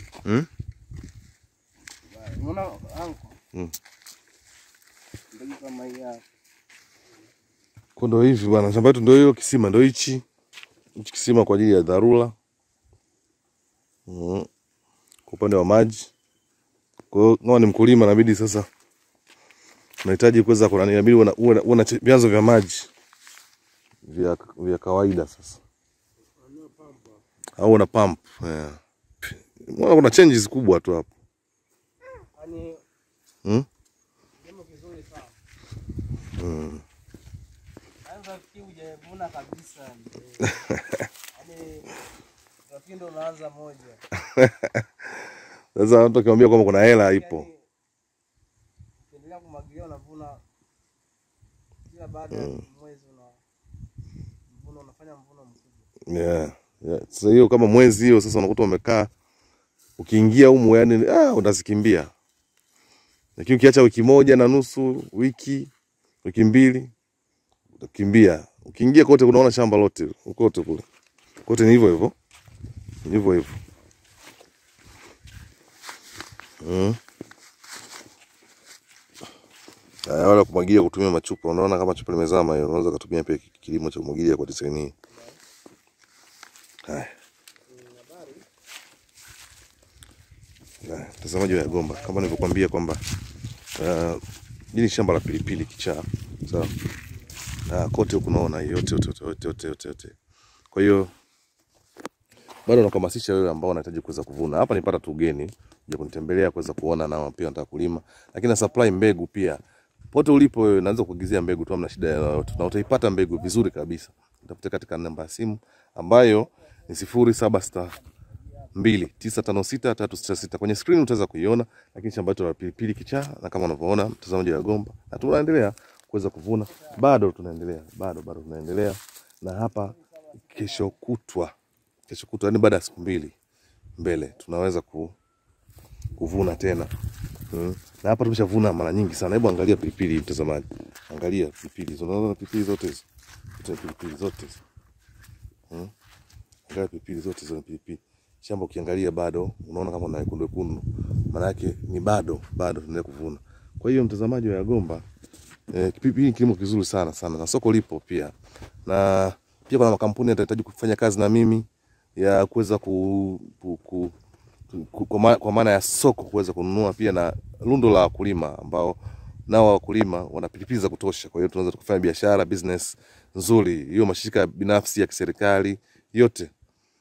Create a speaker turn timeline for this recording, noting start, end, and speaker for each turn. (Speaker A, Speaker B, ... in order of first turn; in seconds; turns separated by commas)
Speaker A: 2.1-3.4, Speaker A: 5.3-6.2, Speaker B: 8.0-10.2, Speaker B: 10.9-12.3, Speaker B: 14.1-14.5, Speaker B: 15.3-16.1, Speaker B: 17.1-18.6, Speaker B: 20.0-22.9, Speaker B: 24.0-25.6, Speaker A: 26.4-27.2, Speaker B: 27.6-31.1, Speaker A: 32.3-32.8, Speaker A: 34.4-35.4, Speaker B: 36.4-36.8, Speaker A: 38.0-40.7, Speaker B: 40.7-41.0, Speaker A: 41.3-42.0, Speaker A: 42.7-44.0, Speaker B: 44.2-44.9, Speaker B: 45.7-47.5, Speaker A: 47.1-47.6, Speaker A: 49.0-50.4, Speaker A: 51.9-53.4, Speaker B: 52.3-52.6, Speaker A: 54.5-55.9, Speaker B: 56.1-59.1, Speaker B: 60.0-62.1, Speaker B: 63.4-65.7, Speaker B: 66.2-66.9, Speaker B: 67.8-70.8, Speaker B: 71.5-72.1, Speaker B: 73.0-73.6, Speaker B: 76.6-77.0, Speaker B: 80.0-84.9, Speaker A: 85.1-85.4, Speaker B: 86.8-87.1, Speaker A: 87.7-88.4, Speaker B: 90.8-93.0, Speaker A: 91.4-92.5, Speaker B: 93.8-96.7, Speaker B: 97.7-100.2, Speaker B: 100.7-101.1, Speaker B: 102.7-109.6, Speaker B: 110.1-118.0, Speaker B: 118.7-129.9, Speaker A: 130.0-130.8, Speaker B: 130.5-131.5, Speaker B: 132.1-133.3, Speaker B: 134.0-135.1, Speaker B: 136.2-136.9, Speaker B: 137.5-143.1, Speaker B: 143.6-144.6, Speaker B: 146.7-155.0, Speaker B: 155.7-158.3, Speaker B: 158.8-161.7, Speaker B: 162.2-164.1, Speaker B: 164.7-176.5